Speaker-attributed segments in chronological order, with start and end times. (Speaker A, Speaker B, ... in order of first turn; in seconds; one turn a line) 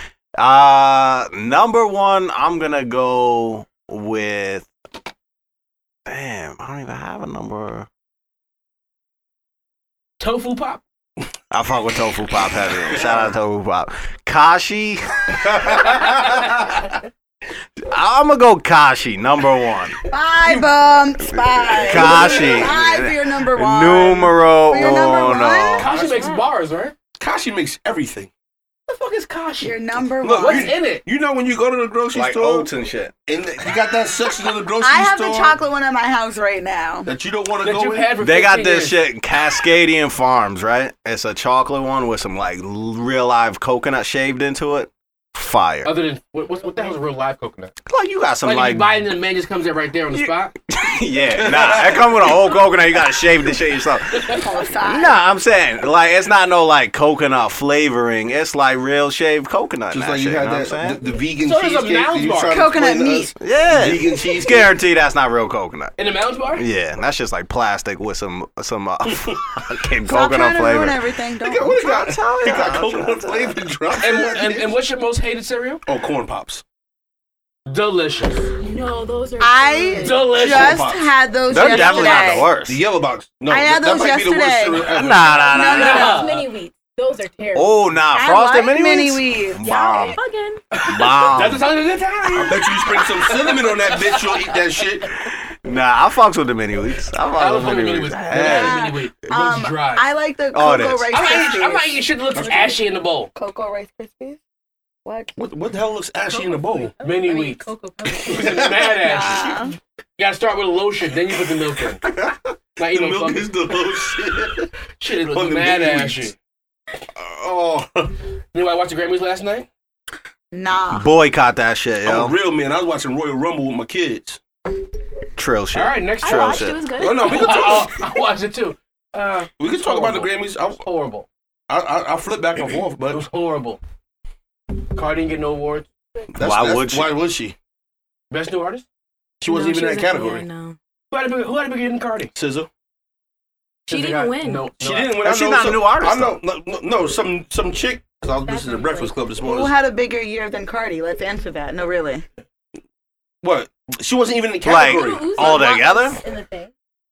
Speaker A: 0.4-4.7
Speaker A: 6.1-7.9
Speaker B: 10.2-10.8
Speaker A: 11.5-16.8
Speaker C: 15.5-16.1
Speaker A: 17.8-20.0
Speaker D: 20.1-25.9
Speaker A: 21.4-25.9
Speaker C: 22.0-22.4
Speaker B: 25.8-26.9
Speaker C: 25.9-26.3
Speaker E: 26.1-26.5
Speaker C: 27.2-28.3
Speaker B: 28.9-29.8
Speaker D: 29.6-30.8
Speaker C: 30.2-32.7
Speaker B: 30.3-31.0
Speaker A: 32.1-33.1
Speaker C: 33.3-35.6
Speaker D: 34.8-37.1
Speaker C: 37.1-38.2
Speaker B: 37.6-39.0
Speaker A: 38.2-45.9
Speaker B: 45.8-47.8
Speaker A: 47.9-49.0
Speaker B: 48.4-50.5
Speaker A: 50.1-61.0
Speaker C: 51.4-52.4
Speaker D: 54.3-55.2
Speaker C: 59.9-64.7
Speaker B: 61.4-62.6
Speaker D: 62.5-63.3
Speaker A: 63.4-66.0
Speaker B: 66.0-66.7
Speaker A: 66.5-71.0
Speaker D: 70.1-72.0
Speaker C: 71.4-74.8
Speaker A: 71.8-73.6
Speaker B: 74.0-75.8
Speaker C: 75.9-76.6
Speaker B: 77.7-78.5
Speaker E: 78.6-80.3
Speaker D: 79.4-82.6
Speaker B: 80.0-80.9
Speaker C: 80.3-81.1
Speaker A: 81.5-82.8
Speaker C: 81.6-81.9
Speaker E: 81.9-82.3
Speaker C: 82.6-85.5
Speaker D: 83.5-84.9
Speaker A: 84.9-86.2
Speaker D: 85.4-86.3
Speaker E: 85.6-87.8
Speaker B: 85.7-86.5
Speaker A: 87.5-90.2
Speaker D: 88.1-90.2
Speaker E: 89.7-90.6
Speaker B: 90.7-94.5
Speaker A: 90.9-91.7
Speaker C: 92.3-95.1
Speaker A: 95.6-98.9
Speaker B: 97.4-100.1
Speaker D: 98.3-102.8
Speaker A: 100.5-101.2
Speaker B: 101.1-103.3
Speaker C: 102.4-102.7
Speaker D: 103.3-104.4
Speaker D: 105.0-105.4
Speaker C: 105.4-106.9
Speaker E: 106.3-109.7
Speaker B: 107.0-107.7
Speaker B: 108.2-109.5
Speaker C: 108.3-108.9
Speaker D: 109.0-109.8
Speaker B: 110.2-112.0
Speaker C: 112.0-114.7
Speaker B: 112.8-113.5
Speaker B: 115.0-116.4
Speaker C: 115.2-116.3
Speaker C: 117.2-118.1
Speaker B: 118.5-119.7
Speaker D: 120.5-121.1
Speaker A: 120.9-122.3
Speaker C: 122.0-124.4
Speaker A: 125.4-126.9
Speaker B: 125.7-131.3
Speaker E: 126.2-127.9
Speaker C: 127.0-128.0
Speaker C: 129.6-130.8
Speaker C: 131.7-133.2
Speaker B: 133.1-133.8
Speaker B: 134.9-135.9
Speaker C: 136.3-137.6
Speaker A: 136.4-137.1
Speaker B: 138.3-138.8
Speaker C: 139.4-140.4
Speaker E: 139.4-140.8
Speaker B: 141.1-142.3
Speaker C: 142.3-142.7
Speaker E: 143.9-144.7
Speaker B: 143.9-145.2
Speaker C: 144.8-149.8
Speaker A: 145.2-146.4
Speaker E: 148.4-149.2
Speaker D: 149.4-152.2
Speaker C: 153.4-155.6
Speaker A: 154.6-156.2
Speaker E: 154.8-156.7